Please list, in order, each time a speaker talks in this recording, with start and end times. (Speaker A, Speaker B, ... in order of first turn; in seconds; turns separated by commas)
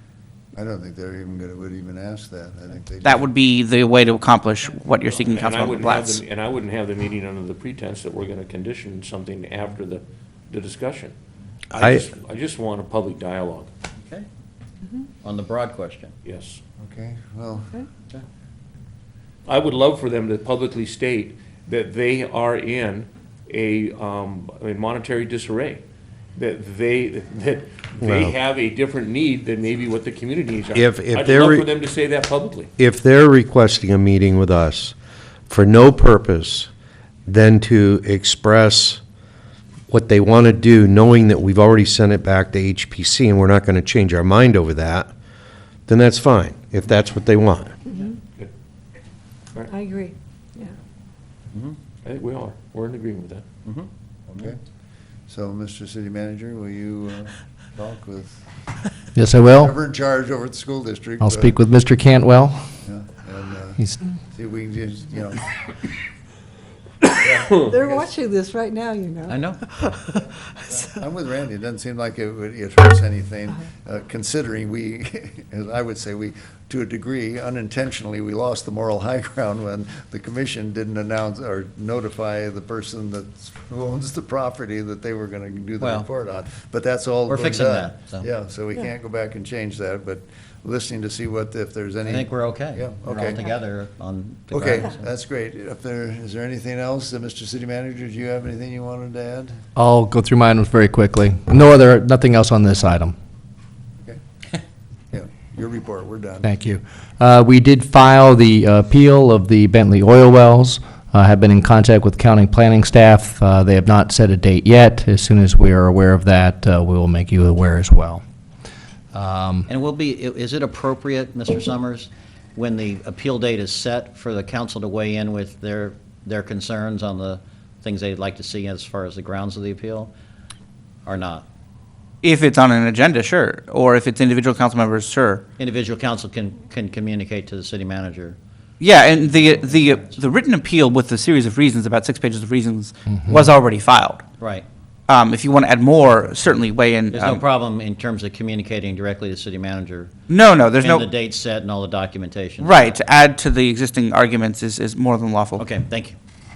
Speaker A: 0.6-3.3, Speaker B: 3.0-3.6, Speaker C: 3.3-6.2, Speaker D: 5.2-11.1, Speaker E: 11.7-12.0, Speaker D: 11.8-13.7, Speaker F: 14.0-14.3, Speaker F: 15.2-16.1, Speaker D: 16.2-16.6, Speaker A: 16.8-17.8, Speaker D: 19.5-25.8, Speaker D: 26.4-32.7, Speaker E: 28.0-28.4, Speaker E: 30.7-31.7, Speaker E: 32.8-35.0, Speaker E: 35.5-36.7, Speaker E: 37.3-39.0, Speaker E: 39.9-45.1, Speaker E: 45.9-47.8, Speaker B: 49.7-50.7, Speaker D: 52.0-53.4, Speaker F: 53.6-54.5, Speaker A: 54.3-54.6, Speaker A: 55.3-58.4, Speaker G: 59.2-59.7, Speaker A: 59.6-61.6, Speaker G: 61.2-62.7, Speaker A: 62.8-65.5, Speaker A: 67.2-68.1, Speaker B: 67.7-70.2, Speaker F: 69.3-69.6, Speaker A: 70.5-93.5, Speaker F: 85.8-86.1, Speaker F: 87.3-88.3, Speaker F: 92.0-95.0, Speaker A: 94.5-99.6, Speaker G: 99.8-103.2, Speaker A: 105.1-106.5, Speaker G: 106.4-118.2, Speaker G: 119.1-119.7, Speaker F: 119.7-130.1, Speaker F: 131.1-131.5, Speaker C: 132.2-135.4, Speaker F: 135.6-138.4, Speaker C: 138.9-144.2, Speaker F: 139.2-140.1, Speaker B: 143.2-143.7, Speaker F: 144.4-144.7, Speaker C: 145.1-147.4, Speaker F: 147.1-150.1, Speaker C: 150.3-151.1, Speaker F: 150.8-153.0, Speaker C: 152.6-155.6, Speaker F: 155.6-156.2